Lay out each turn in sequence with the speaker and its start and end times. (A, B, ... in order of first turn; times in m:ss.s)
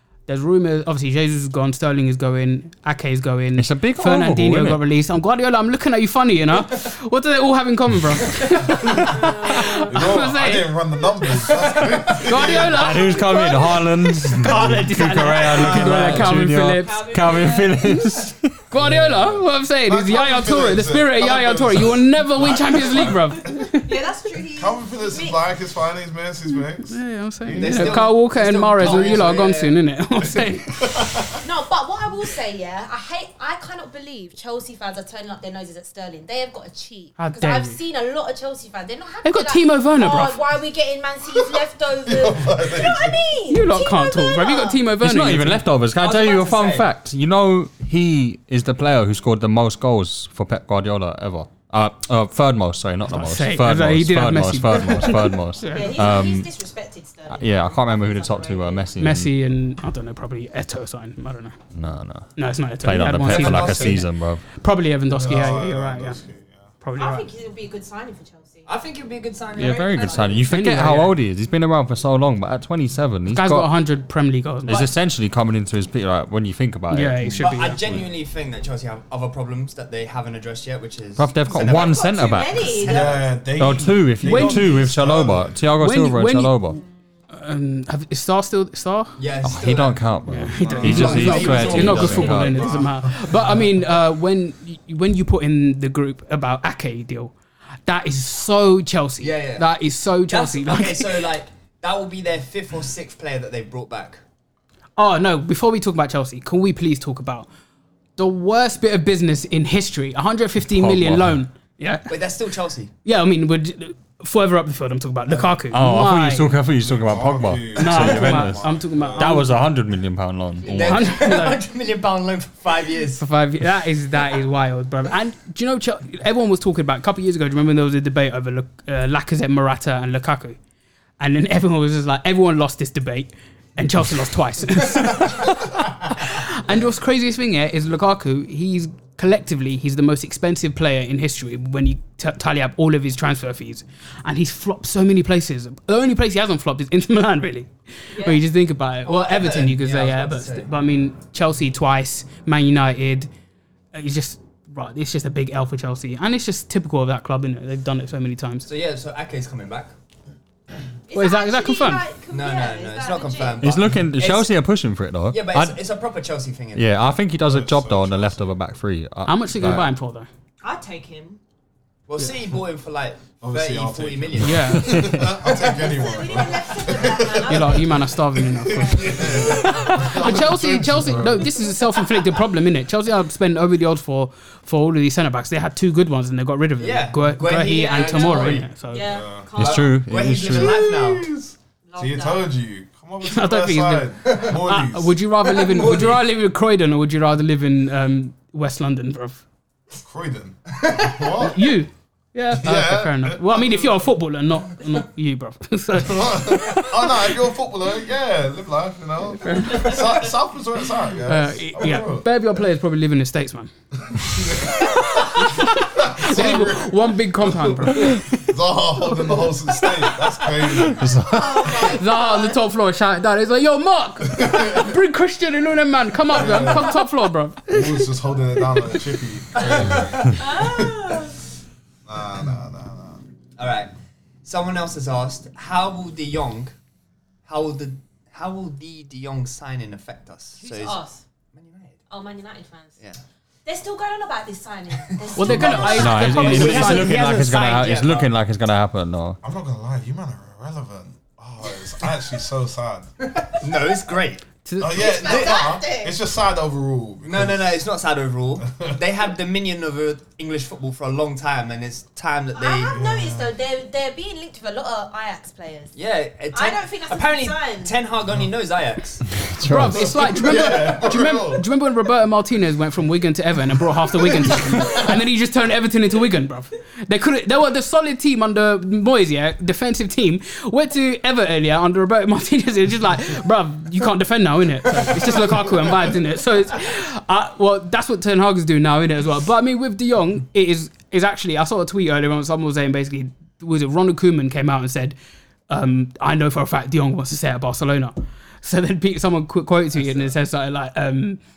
0:00.3-0:10.8 A
0:03.6-0:04.8 B
0:09.2-0:09.8 C
0:09.9-0:13.0 D
0:11.7-0:17.2 A
0:12.7-0:18.5 B
0:15.9-0:16.2 E
0:16.8-0:18.0 C
0:18.7-0:23.9 A
0:18.7-0:23.4 D
0:23.7-0:25.4 C
0:24.6-0:28.2 D
0:26.8-0:30.9 A
0:27.5-0:29.8 E
0:28.8-0:29.4 D
0:30.2-0:31.4 D
0:31.4-0:44.8 C
0:37.2-0:37.8 A
0:39.2-0:40.4 A
0:41.3-0:43.2 D
0:43.5-0:45.6 A
0:45.0-0:56.5 B
0:46.0-0:46.9 E
0:53.1-0:56.1 A
0:55.7-0:58.9 C
0:57.3-0:59.3 B
0:59.0-1:01.6 A
1:01.7-1:04.4 B
1:02.4-1:06.2 A
1:03.2-1:04.0 E
1:05.1-1:06.7 D
1:06.8-1:07.3 A
1:07.0-1:08.7 C
1:08.7-1:10.4 E
1:09.6-1:13.7 B
1:09.6-1:10.4 C
1:10.5-1:11.1 A
1:13.3-1:14.9 A
1:14.7-1:18.0 B
1:16.9-1:17.8 A
1:17.4-1:23.4 E
1:21.2-1:22.7 B
1:21.6-1:23.2 C
1:22.8-1:25.6 D
1:23.6-1:26.8 B
1:24.2-1:24.7 A
1:25.8-1:26.6 A
1:27.3-1:29.2 A
1:29.2-1:32.5 E
1:29.4-1:32.7 B
1:30.3-1:37.3 A
1:30.6-1:33.8 D
1:37.9-1:41.2 A
1:39.2-1:39.7 E
1:40.3-1:44.2 E
1:45.0-1:47.5 A
1:48.2-1:52.1 A
1:50.7-1:51.4 B
1:52.1-1:52.9 E
1:53.0-1:56.5 A
1:55.3-1:55.6 D
1:55.7-2:01.1 B
1:56.8-1:59.4 D
1:57.8-1:59.6 A
2:00.6-2:03.2 E
2:00.7-2:01.6 A
2:03.2-2:10.6 A
2:11.2-2:33.3 A
2:28.1-2:28.4 C
2:29.0-2:30.7 E
2:33.9-2:38.7 A
2:38.6-2:39.9 E
2:41.1-2:43.7 C
2:41.1-2:42.0 A
2:42.3-2:44.5 E
2:43.6-2:45.8 B
2:45.3-2:47.0 E
2:46.7-2:49.9 B
2:47.4-2:48.5 D
2:49.2-2:50.3 A
2:50.6-2:51.4 C
2:52.1-2:56.0 E
2:53.4-3:01.6 D
2:54.4-2:55.0 A
2:54.8-2:55.2 B
2:55.9-2:58.0 C
2:57.5-3:09.1 A
2:58.7-3:00.2 C
3:06.8-3:08.7 E
3:07.7-3:09.9 C
3:09.0-3:09.5 D
3:09.6-3:10.8 B
3:09.6-3:11.3 E
3:10.3-3:15.2 D
3:11.9-3:12.5 C
3:13.2-3:19.4 A
3:15.5-3:16.2 E
3:20.0-3:21.7 D
3:20.8-3:21.4 E
3:21.4-3:27.3 A
3:22.5-3:24.0 D
3:25.9-3:32.3 D
3:29.4-3:30.1 A
3:31.2-3:33.7 A
3:34.0-3:41.8 D
3:35.4-3:38.2 A
3:41.0-3:41.9 B
3:41.3-3:42.6 C
3:41.9-3:48.0 A
3:44.4-3:44.8 D
3:46.3-3:47.0 D
3:47.7-3:51.2 D
3:49.6-3:50.3 E
3:50.3-3:51.4 C
3:52.0-3:53.2 D
3:53.6-3:53.9 E
3:54.4-3:56.7 E
3:57.4-4:02.0 E
4:00.6-4:01.2 C
4:02.1-4:03.0 C
4:03.6-4:06.9 C
4:05.1-4:08.3 E
4:05.3-4:07.9 A
4:05.4-4:06.2 D
4:06.0-4:09.4 B
4:09.4-4:13.1 D
4:13.3-4:14.4 E
4:14.6-4:15.0 A
4:14.8-4:17.8 D
4:15.0-4:16.2 C
4:15.0-4:15.7 E
4:17.2-4:23.0 E
4:18.7-4:19.0 D
4:22.6-4:25.9 C
4:22.9-4:23.5 D
4:25.9-4:29.2 E
4:26.5-4:28.0 C
4:29.4-4:30.0 B
4:29.6-4:55.2 A
4:29.8-4:31.7 D
4:34.2-4:35.0 D
4:55.7-5:01.4 A